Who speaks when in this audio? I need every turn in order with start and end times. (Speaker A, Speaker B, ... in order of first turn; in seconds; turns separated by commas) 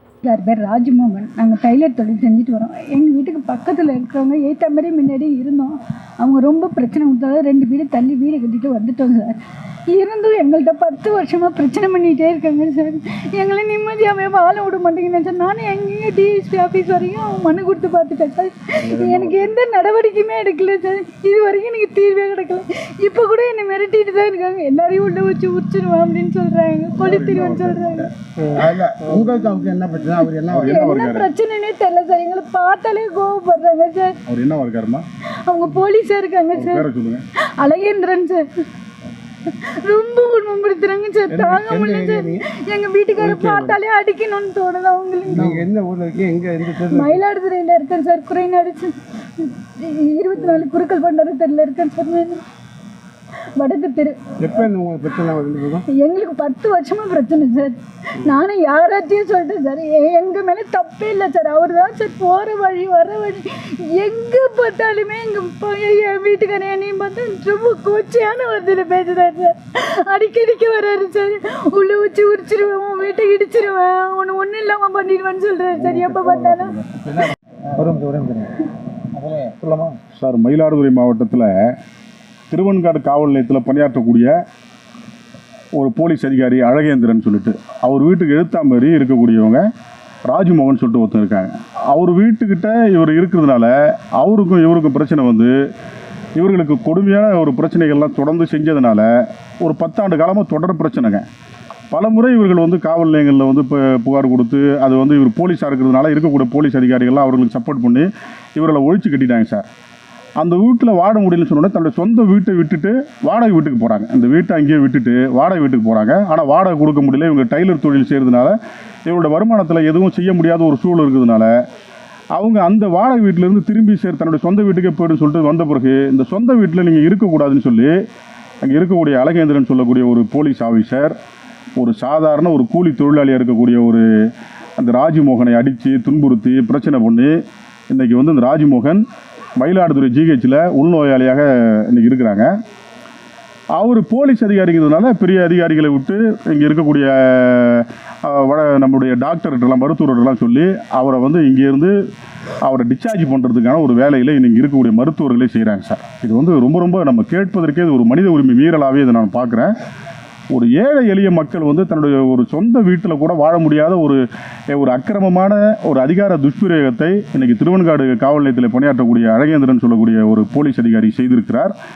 Speaker A: 0.2-9.3, Speaker A: 9.9-28.1, Speaker B: 18.8-19.5, Speaker B: 27.0-27.8, Speaker C: 27.1-27.4, Speaker C: 28.4-30.7, Speaker B: 30.5-31.3, Speaker A: 30.6-34.1, Speaker B: 34.3-35.0, Speaker A: 35.5-36.9, Speaker B: 36.5-37.2, Speaker A: 37.6-38.4, Speaker A: 39.5-45.6, Speaker C: 41.3-42.4, Speaker C: 43.2-43.8, Speaker C: 45.3-47.2, Speaker A: 46.9-52.4, Speaker A: 53.6-54.2, Speaker C: 54.4-55.8, Speaker A: 55.9-76.8, Speaker C: 75.8-77.2, Speaker C: 77.7-78.5, Speaker C: 79.1-80.0, Speaker B: 80.2-81.7, Speaker B: 82.5-84.3, Speaker B: 85.8-89.6, Speaker B: 90.2-95.5, Speaker B: 96.4-99.1, Speaker B: 99.6-101.2, Speaker B: 101.9-109.6, Speaker B: 110.4-118.5, Speaker B: 119.0-121.5, Speaker B: 122.3-127.9, Speaker B: 128.6-131.1, Speaker B: 131.8-134.1, Speaker B: 134.8-137.3, Speaker B: 137.9-139.0, Speaker B: 139.6-142.5, Speaker B: 143.8-151.9, Speaker B: 152.6-159.7, Speaker B: 160.5-164.2, Speaker B: 164.7-171.7